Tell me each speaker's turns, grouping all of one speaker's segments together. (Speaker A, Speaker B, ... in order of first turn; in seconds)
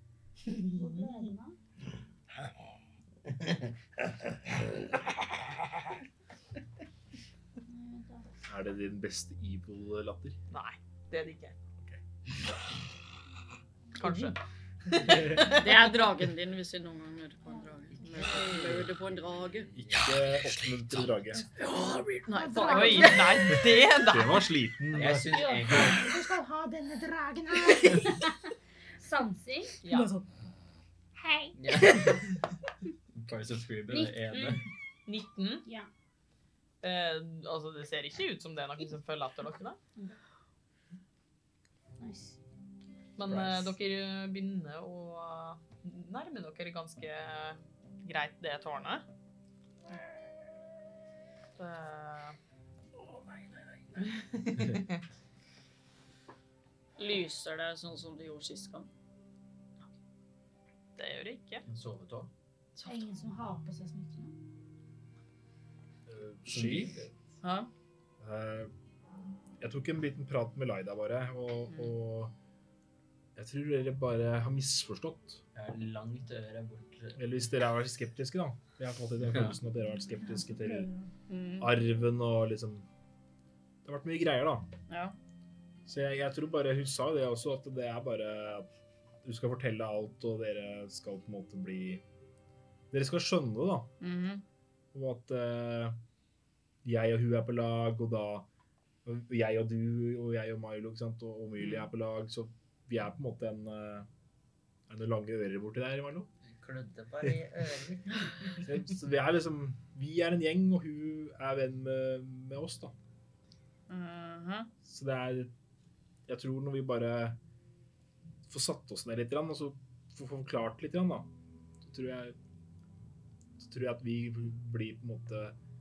Speaker A: 0.6-1.6, 7.7-8.3, 17.5-18.4, 22.3-23.6, 25.3-29.8, 31.1-31.9, 33.9-34.6, 35.6-35.9, 42.0-42.4, 62.8-64.3, 80.6-81.0
Speaker B: 8.5-10.4, 14.9-15.6, 19.7-21.4, 24.0-26.0, 66.1-67.1, 68.2-68.7, 69.6-72.3, 73.3-75.4, 77.2-80.9, 81.6-82.9, 83.8-84.7, 85.8-88.7, 89.2-92.0, 92.9-93.9, 94.9-96.0, 96.8-98.5, 99.0-104.1, 104.9-106.3, 108.6-112.9, 114.8-115.5, 116.3-117.4, 118.5-121.3, 121.8-122.3, 123.6-125.5
Speaker C: 10.5-11.6, 13.9-14.4, 22.6-24.5, 29.8-30.1, 35.0-35.6, 36.8-39.8, 43.2-49.0, 51.6-52.4, 54.5-55.0, 61.0-61.6
Speaker D: 15.1-19.7, 21.6-23.4, 57.0-58.9, 62.7-63.0, 67.4-67.7, 71.7-71.9, 81.3-81.7, 84.9-85.2, 94.0-94.4, 101.6-101.9, 113.9-114.7
Speaker E: 18.0-18.9, 19.7-21.1, 24.9-26.1, 31.6-32.5, 33.1-34.7, 61.6-62.3, 66.5-67.1, 75.5-77.2, 79.2-79.5, 106.4-108.7